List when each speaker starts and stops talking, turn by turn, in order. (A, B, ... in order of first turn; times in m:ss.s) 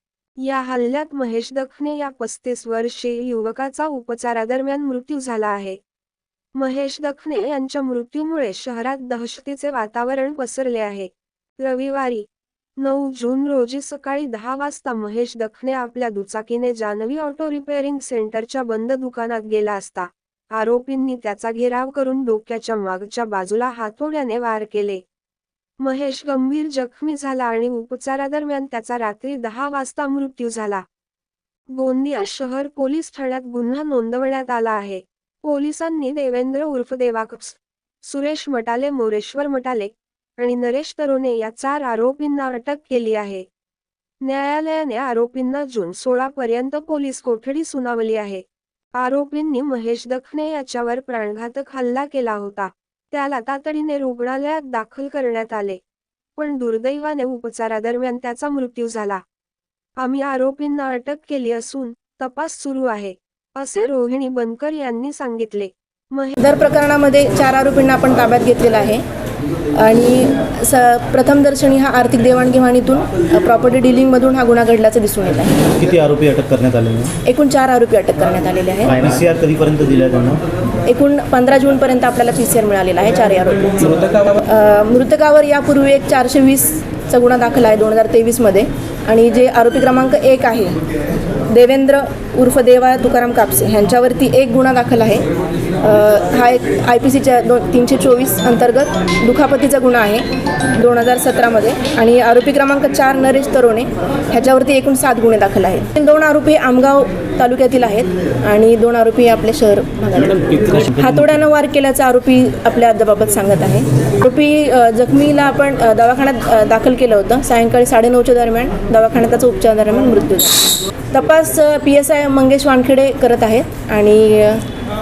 0:00.4-0:05.8 A
0:06.6-0:12.2 A
0:12.8-0:25.0 A
0:25.8-0:30.8 A
0:31.7-0:43.4 A
0:44.2-0:48.4 A
0:48.9-0:55.8 A
0:56.4-0:59.2 A
1:00.0-1:06.4 A
1:06.4-1:09.0 B
1:09.7-1:15.6 B
1:15.7-1:17.2 C
1:17.2-1:19.0 B
1:18.8-1:20.4 C
1:20.8-1:30.8 B
1:31.5-1:35.2 B
1:35.8-2:04.6 B
1:50.7-1:51.2 C